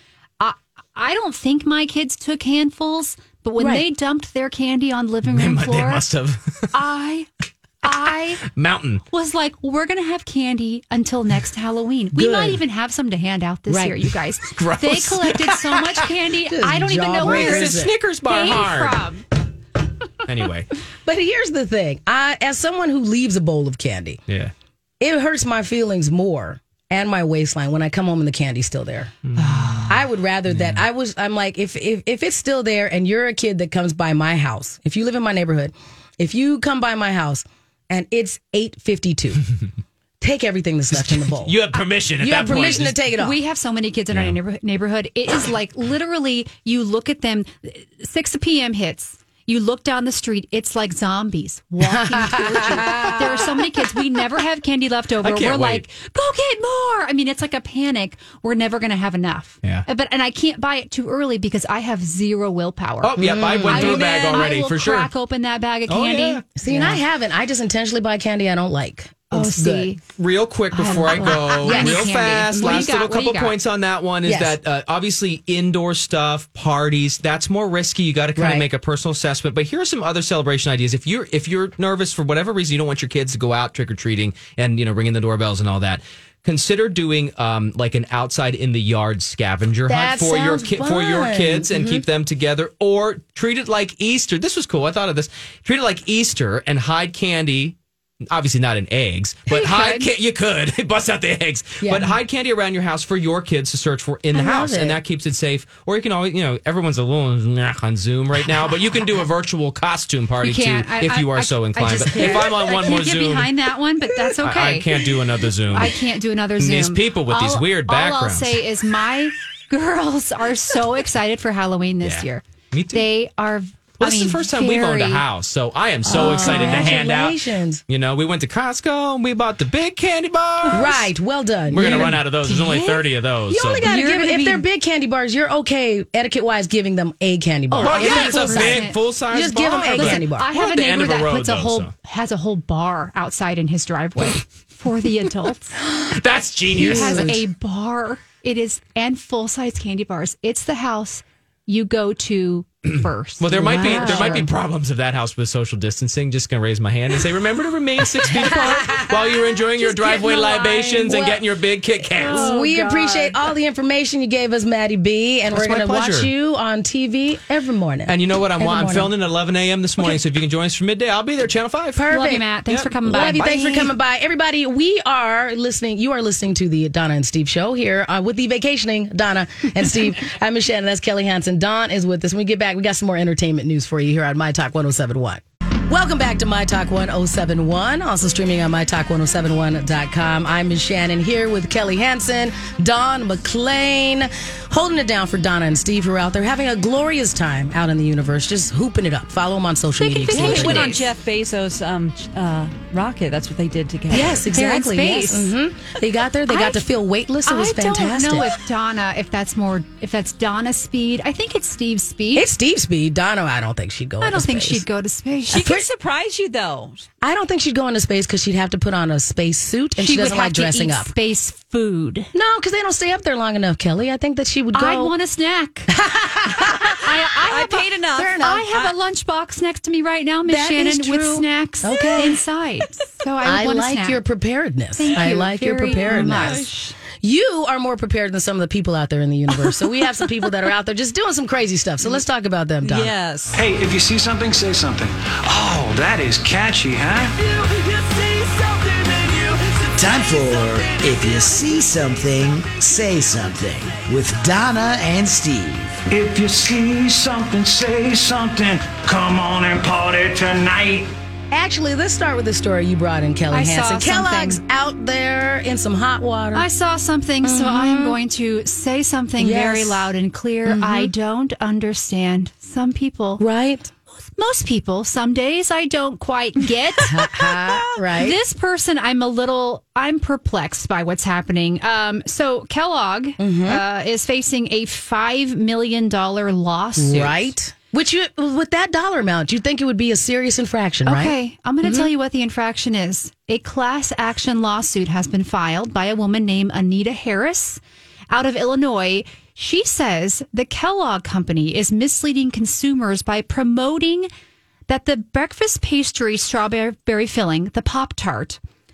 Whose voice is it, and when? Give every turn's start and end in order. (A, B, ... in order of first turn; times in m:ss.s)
0:00.4-0:06.0 A
0:03.6-0:03.8 B
0:05.2-0:06.7 C
0:06.7-0:07.3 A
0:07.8-0:08.4 A
0:08.4-0:09.0 C
0:09.1-0:19.2 A
0:12.1-0:12.6 B
0:13.7-0:14.0 B
0:14.4-0:16.1 C
0:16.4-0:17.9 B
0:17.2-0:19.0 C
0:20.2-0:20.7 C
0:21.0-0:24.2 B
0:25.0-0:29.1 B
0:29.3-0:30.0 C
0:29.4-0:29.9 A
0:29.9-0:39.4 B
0:30.5-0:30.8 C
0:40.2-0:41.5 B
0:40.9-0:43.0 C
0:42.2-0:43.4 B
0:42.4-1:07.0 A
0:44.1-0:44.4 C
0:51.8-0:53.4 B
0:52.8-0:53.2 C
0:55.2-0:55.8 C
1:03.0-1:05.1 C
1:03.2-1:04.4 B
1:05.9-1:06.5 C
1:06.6-1:09.9 B
1:09.3-1:10.0 A
1:10.0-1:37.8 C
1:10.7-1:13.5 A
1:11.2-1:12.8 B
1:14.2-1:14.6 B
1:18.4-1:18.7 B
1:29.9-1:32.0 B
1:38.3-1:53.5 C
1:39.5-1:40.1 A
1:41.8-1:42.1 B
1:44.3-1:45.0 B
1:50.4-1:55.0 A
1:52.0-1:53.0 B
1:54.4-1:56.0 C
1:55.7-2:05.2 A
1:56.6-1:58.6 C
2:02.0-2:03.1 C
2:04.0-2:11.0 C
2:06.0-2:07.8 B
2:06.1-2:06.9 A
2:10.7-2:12.2 B
2:11.7-2:13.9 C
2:11.8-2:13.1 A
2:13.5-2:20.5 B
2:13.7-2:14.6 A
2:17.7-2:19.0 A
2:17.8-2:21.9 C
2:19.9-2:25.8 A
2:26.0-2:27.4 C
2:26.7-2:27.4 B
2:26.8-2:34.5 A
2:32.8-2:42.4 C
2:33.5-2:34.4 B
2:38.2-2:41.4 B
2:39.9-2:41.2 A
2:42.2-2:43.3 A
2:42.2-2:49.1 B
2:45.5-2:46.3 C
2:48.0-2:52.1 C
2:52.0-2:52.4 B
2:52.1-2:53.5 A
2:52.6-2:53.9 C
2:53.0-3:21.0 B
3:20.0-3:21.0 A
3:20.3-3:24.4 D
3:24.1-3:28.5 B
3:24.2-3:25.5 A
3:26.5-3:26.8 A
3:27.4-3:32.5 A
3:32.3-3:34.8 B
3:34.2-3:35.7 A
3:35.5-3:37.1 D
3:35.5-3:35.8 B
3:37.2-3:41.1 B
3:40.0-3:42.3 A
3:42.3-3:45.1 B
3:44.7-3:45.9 A
3:45.9-3:47.1 B
3:46.8-3:47.8 A
3:47.4-3:48.9 D
3:48.1-3:48.7 B
3:48.3-3:54.2 A
3:50.4-3:52.4 B
3:53.4-3:56.7 B
3:55.0-3:56.9 A
3:56.0-3:56.7 D
3:57.2-4:03.1 B
4:02.8-4:03.6 D
4:03.5-4:07.5 E
4:08.9-4:10.9 E
4:09.9-4:16.0 F
4:16.1-4:21.1 E
4:21.5-4:26.6 B
4:23.5-4:24.6 A
4:26.5-4:33.4 A
4:27.4-4:28.2 B
4:29.4-4:30.1 B
4:30.6-4:31.1 B
4:33.4-4:33.9 B
4:34.1-4:47.5 A
4:37.1-4:38.4 B
4:43.4-4:43.8 B
4:47.0-4:52.1 B
4:51.0-5:04.3 A
5:04.9-5:08.6 A